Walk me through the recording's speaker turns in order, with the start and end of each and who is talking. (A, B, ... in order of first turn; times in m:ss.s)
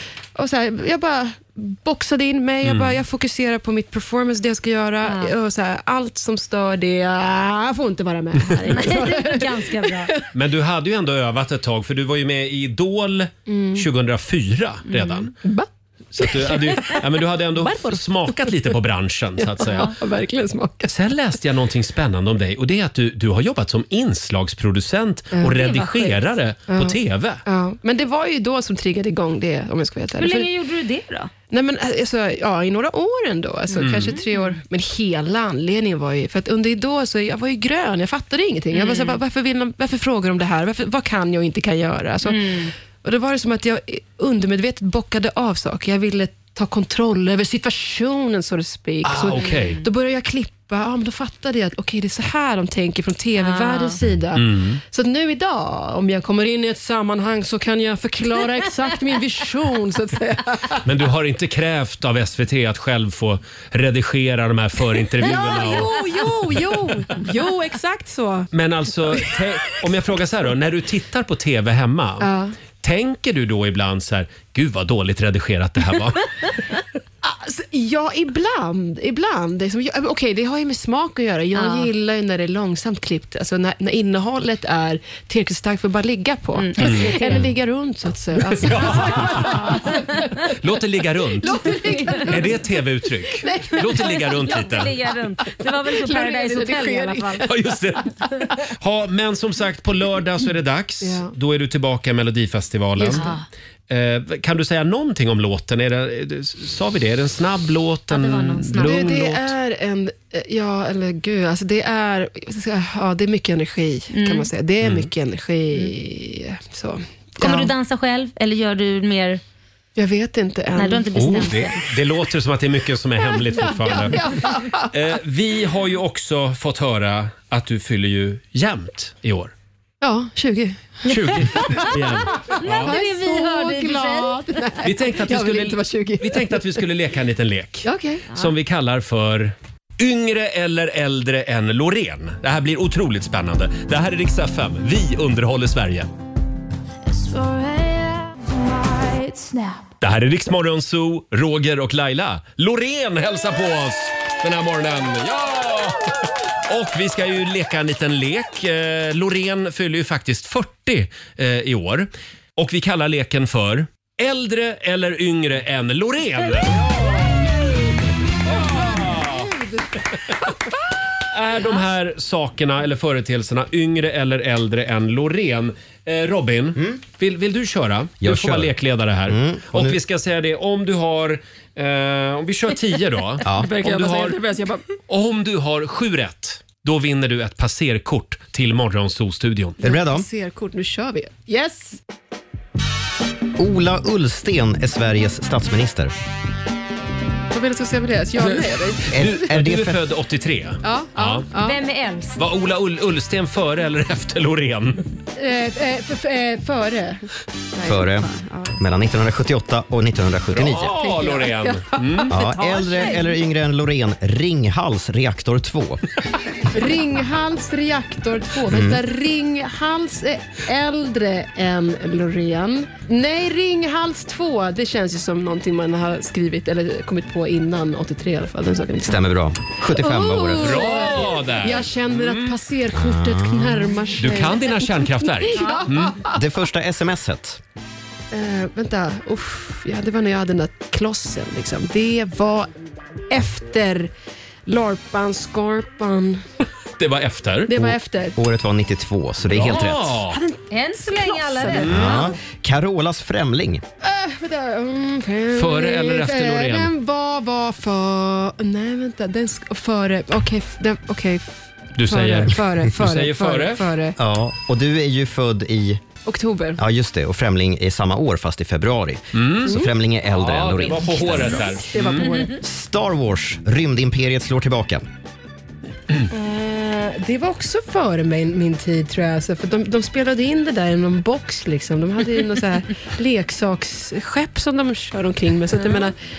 0:00.3-0:10.3 A
0:02.6-0:03.0 B
0:05.0-0:05.3 C
0:08.4-0:08.7 B
0:08.6-0:10.1 C
0:10.3-0:15.3 B
0:13.5-0:13.9 A
0:14.9-0:15.2 C
0:15.4-0:18.8 A
0:16.1-0:19.9 B
0:19.4-0:20.9 A
0:19.7-0:19.9 C
0:20.9-0:27.4 B
0:25.3-0:25.7 A
0:25.5-0:26.3 C
0:26.7-0:30.5 A
0:30.2-0:31.3 C
0:31.5-1:00.8 A
0:33.7-0:34.4 C
0:33.8-0:34.2 B
0:38.7-0:39.2 C
0:42.2-0:42.7 C
0:49.0-0:49.8 B
0:49.4-0:49.8 C
0:53.4-0:54.0 C
0:54.3-0:54.8 B
1:00.8-1:06.0 B
1:05.1-1:08.5 A
1:08.5-1:16.3 B
1:09.1-1:09.4 A
1:12.2-1:12.5 A
1:17.2-1:30.4 A
1:21.5-1:21.9 C
1:26.5-1:27.4 C
1:26.8-1:27.4 B
1:28.4-1:29.9 B
1:30.6-1:35.0 B
1:31.3-1:34.6 A
1:31.8-1:32.5 C
1:33.9-1:37.5 C
1:35.4-1:38.3 A
1:37.4-1:43.3 B
1:41.0-1:41.3 A
1:43.0-1:43.3 A
1:43.1-1:43.4 C
1:43.9-1:49.5 B
1:48.1-1:49.1 C
1:48.8-1:57.7 A
1:54.1-1:54.5 C
1:54.8-1:55.1 B
1:57.4-1:59.4 C
2:00.0-2:01.4 A
2:00.7-2:01.8 C
2:01.1-2:04.4 B
2:03.3-2:04.9 A
2:04.9-2:09.5 B
2:10.0-2:16.8 A
2:11.1-2:12.9 B
2:11.2-2:14.8 C
2:14.8-2:26.1 B
2:17.8-2:18.3 A
2:29.0-2:29.6 A
2:30.0-2:36.0 B
2:36.7-2:47.0 B
2:48.4-2:49.5 B
2:48.6-2:50.0 A
2:51.3-3:04.4 B
2:58.2-2:58.7 D
2:59.2-3:00.0 D
3:03.4-3:03.7 D
3:03.5-3:04.8 A
3:05.1-3:09.8 B
3:09.8-3:12.0 A
3:09.8-3:10.3 D
3:13.6-3:16.1 D
3:17.5-3:19.3 A
3:18.4-3:21.5 B
3:19.1-3:20.0 D
3:20.8-3:21.8 A
3:21.6-3:22.4 C
3:22.4-3:25.0 B
3:25.3-3:28.8 A
3:27.8-3:31.0 D
3:30.5-3:32.4 B
3:30.9-3:33.3 A
3:32.3-3:36.0 D
3:36.7-3:49.3 A
3:38.7-3:39.0 D
3:49.0-3:51.1 D
3:49.8-3:56.4 A
3:50.6-3:52.6 B
3:52.9-3:53.9 D
3:54.2-3:56.2 B
3:55.5-3:55.9 C
3:56.3-3:57.6 D
3:58.3-4:02.7 A
4:03.3-4:04.1 A
4:04.6-4:06.4 A
4:07.0-4:07.8 B
4:07.7-4:08.4 A
4:08.4-4:10.2 D
4:09.4-4:10.4 B
4:10.3-4:12.2 A
4:10.7-4:12.2 C
4:11.7-4:12.3 B
4:11.9-4:13.8 D
4:14.0-4:24.2 A
4:15.5-4:16.9 B
4:22.0-4:23.9 B
4:24.2-4:26.0 D
4:26.2-4:26.8 A
4:26.8-4:31.8 D
4:29.3-4:32.4 B
4:29.6-4:29.9 A
4:31.5-4:32.6 A
4:32.5-4:35.0 D
4:36.3-4:46.2 A
4:45.7-4:46.1 C